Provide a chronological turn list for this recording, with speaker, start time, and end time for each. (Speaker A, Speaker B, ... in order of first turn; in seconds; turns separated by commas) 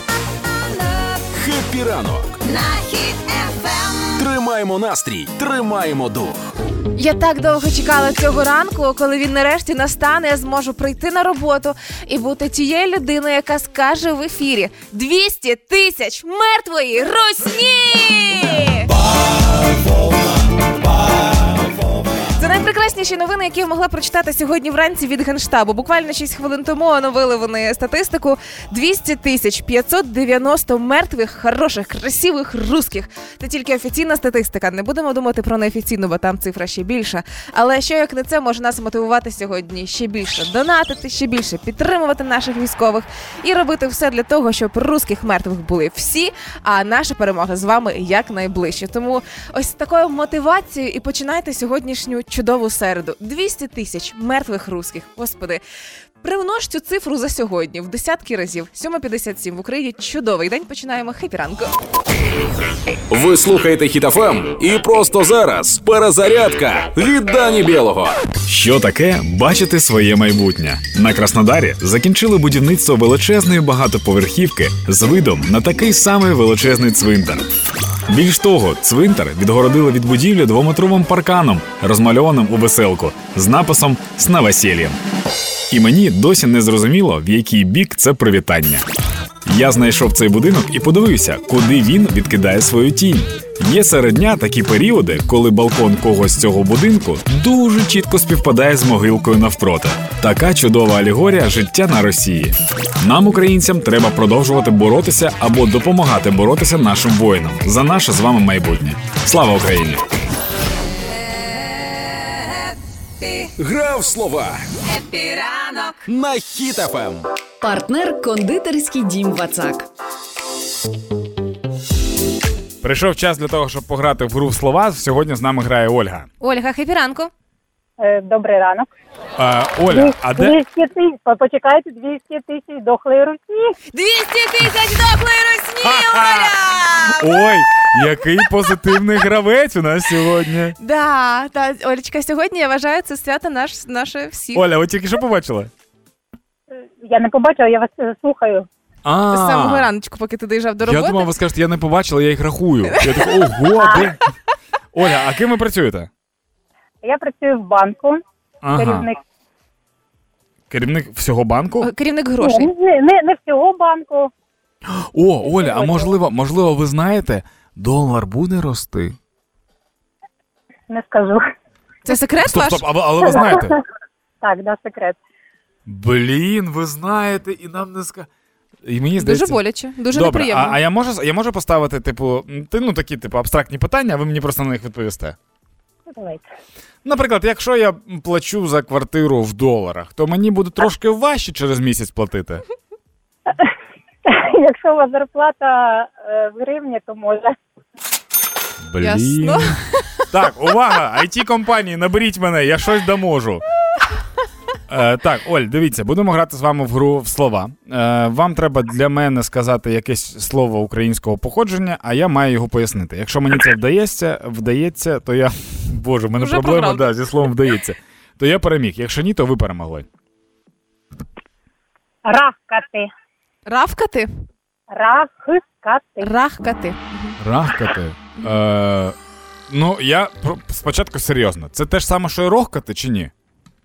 Speaker A: 0.7-1.3, Speaker B: 1.3-2.4, Speaker A: 2.4-4.3, Speaker B: 4.2-6.5, Speaker C: 7.0-18.9, Speaker C: 22.3-55.6, Speaker C: 56.2-61.7, Speaker B: 63.1-68.2, Speaker D: 68.5-77.5, Speaker D: 78.1-85.0, Speaker D: 85.7-88.8, Speaker D: 89.5-110.0, Speaker A: 111.2-113.5, Speaker B: 113.6-114.7, Speaker A: 114.8-116.0, Speaker B: 116.1-117.2, Speaker E: 117.6-119.9, Speaker D: 122.8-126.3, Speaker C: 126.4-127.3, Speaker F: 128.0-128.9, Speaker D: 129.4-130.6, Speaker F: 129.9-133.8, Speaker C: 133.9-137.3, Speaker D: 135.8-136.5, Speaker D: 137.1-140.8, Speaker C: 140.8-144.6, Speaker D: 144.5-145.7, Speaker F: 147.0-148.7, Speaker D: 149.0-149.9, Speaker C: 149.3-151.3, Speaker D: 150.8-154.2, Speaker F: 153.8-154.1, Speaker D: 154.9-156.1, Speaker F: 157.0-158.2, Speaker D: 158.6-159.1, Speaker F: 158.8-159.2, Speaker D: 160.7-161.9, Speaker C: 161.8-162.7, Speaker F: 162.4-164.3, Speaker D: 164.9-169.2, Speaker F: 170.9-171.5, Speaker C: 172.1-172.8, Speaker D: 172.4-173.8, Speaker F: 173.4-173.7, Speaker F: 174.4-175.2, Speaker D: 175.8-178.3, Speaker D: 178.8-179.6, Speaker C: 179.2-180.8, Speaker D: 180.1-185.3, Speaker F: 186.2-186.4, Speaker D: 187.0-192.6, Speaker F: 194.2-197.6, Speaker D: 198.8-199.8, Speaker C: 199.0-200.2, Speaker D: 200.3-203.6, Speaker D: 204.9-220.1, Speaker C: 216.4-217.0, Speaker F: 222.2-223.1, Speaker C: 223.7-224.3, Speaker F: 224.9-226.3, Speaker C: 226.2-227.3, Speaker D: 227.4-229.2, Speaker D: 229.7-233.3